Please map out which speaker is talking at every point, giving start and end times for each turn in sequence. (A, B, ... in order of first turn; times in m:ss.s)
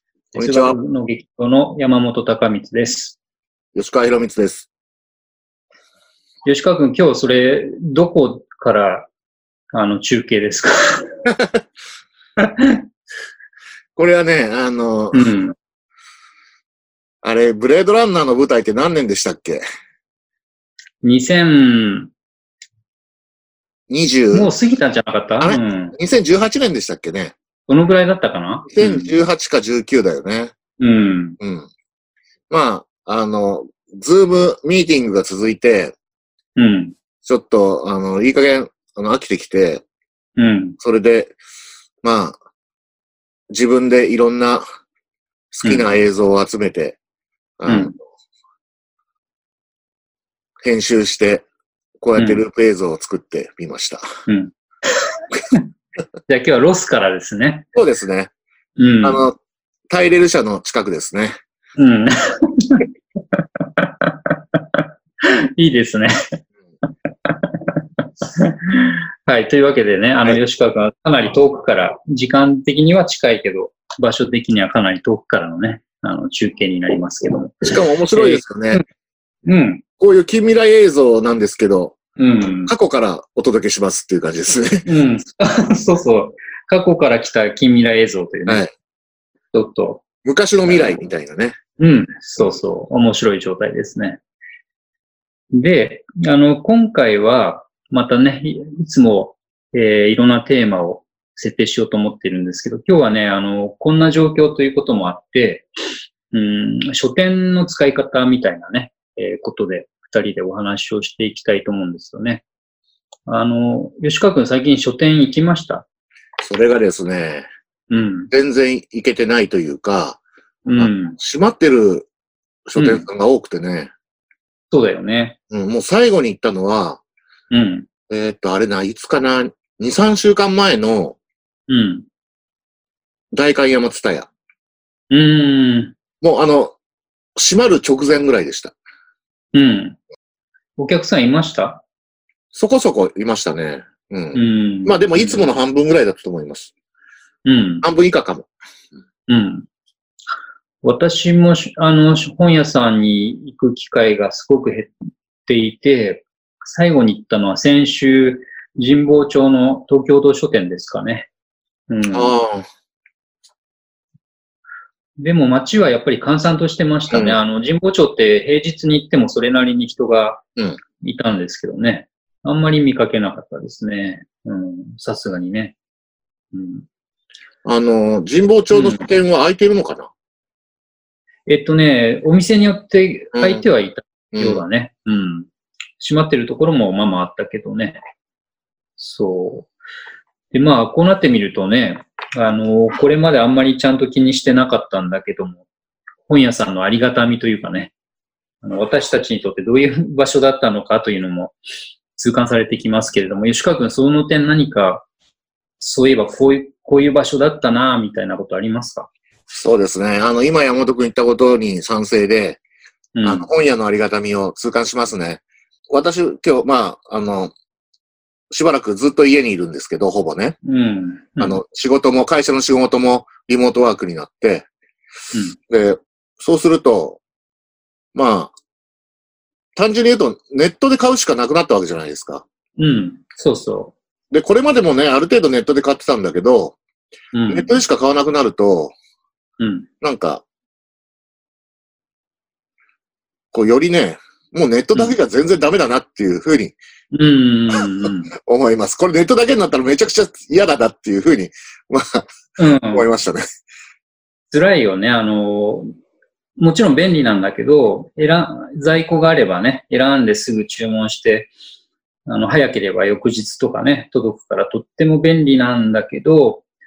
0:00.3-0:03.2 A
0:00.4-0:00.8 B
0:03.8-0:04.7 B
0:06.4-0:09.1 A
0:09.7-0:11.2 A
0:12.4-0:12.8 A
0:14.0-0:15.3 B
0:15.1-0:15.5 A
0:17.2-0:19.6 B
0:21.0-0:22.1 A
0:23.9-0:24.5 B
0:24.3-0:26.0 A
0:25.4-0:27.4 B
0:27.7-0:29.1 A
0:28.7-0:30.5 B
0:30.8-0:31.4 A
0:31.4-0:31.7 B
0:32.5-0:36.0 B
0:36.6-0:37.0 A
0:37.2-0:39.8 B
0:40.4-0:40.8 A
0:40.8-0:41.4 B
0:42.0-0:42.4 B
0:43.5-0:44.6 B
0:45.5-0:47.0 B
0:47.6-0:48.0 B
0:47.7-0:48.0 A
0:50.6-0:51.4 B
0:52.0-0:54.0 B
0:52.2-0:52.4 A
0:54.3-0:55.6 A
0:56.3-0:57.7 A
0:57.7-0:58.3 B
0:58.8-0:59.3 A
0:59.0-0:59.4 B
0:59.9-1:01.4 B
1:01.8-1:06.4 A
1:07.2-1:18.8 A
1:17.6-1:18.8 B
1:19.4-1:19.8 A
1:20.0-1:22.0 B
1:22.2-1:22.7 A
1:22.7-1:24.9 B
1:24.9-1:28.6 A
1:28.5-1:28.7 B
1:29.5-1:30.0 A
1:30.2-1:31.6 B
1:30.7-1:31.0 A
1:31.8-1:34.2 A
1:35.5-1:45.7 A
1:46.3-1:52.4 A
1:53.3-1:55.8 A
1:56.4-1:57.5 B
1:57.9-1:58.3 A
1:58.3-2:00.2 B
2:00.7-2:01.2 A
2:00.8-2:02.1 B
2:02.7-2:03.9 B
2:02.8-2:03.0 A
2:04.7-2:05.4 A
2:05.5-2:07.0 B
2:07.5-2:07.9 A
2:08.1-2:11.2 B
2:11.7-2:12.1 A
2:13.3-2:14.3 B
2:15.1-2:15.9 A
2:16.2-2:16.8 B
2:17.4-2:18.8 B
2:19.5-2:20.0 A
2:20.8-2:21.8 A
2:22.5-2:26.7 B
2:24.3-2:25.4 A
2:27.4-2:27.9 A
2:27.8-2:28.5 B
2:29.3-2:29.7 A
2:30.8-2:34.9 A
2:35.4-2:41.3 A
2:41.9-2:42.4 A
2:42.1-2:42.7 B
2:45.2-2:50.5 A
2:47.1-2:47.4 B
2:51.0-2:55.8 A
2:56.5-2:56.9 A
2:57.6-3:00.1 B
2:58.7-2:59.1 A
3:01.5-3:08.0 A
3:03.3-3:03.6 B
3:04.3-3:04.6 B
3:09.0-3:09.7 A
3:10.5-3:15.6 A
3:16.3-3:17.9 A
3:18.6-3:21.6 A
3:22.2-3:25.1 A
3:25.8-3:29.1 A
3:29.5-3:32.6 B
3:33.2-3:33.5 A
3:33.2-3:37.5 B
3:38.5-3:40.6 B
3:40.6-3:41.6 A
3:41.4-3:44.7 B
3:45.7-3:47.2 B
3:48.1-3:48.5 B
3:49.8-3:52.4 B
3:52.8-3:54.0 A
3:54.3-3:56.8 B
3:57.3-3:57.8 A
3:57.5-3:58.9 B
3:59.6-3:59.9 A
4:00.0-4:00.4 B
4:03.5-4:06.8 B
4:07.1-4:08.3 A
4:08.4-4:12.3 B
4:12.6-4:13.1 A
4:12.9-4:13.6 B
4:14.5-4:15.9 A
4:16.6-4:21.5 A
4:22.3-4:26.6 A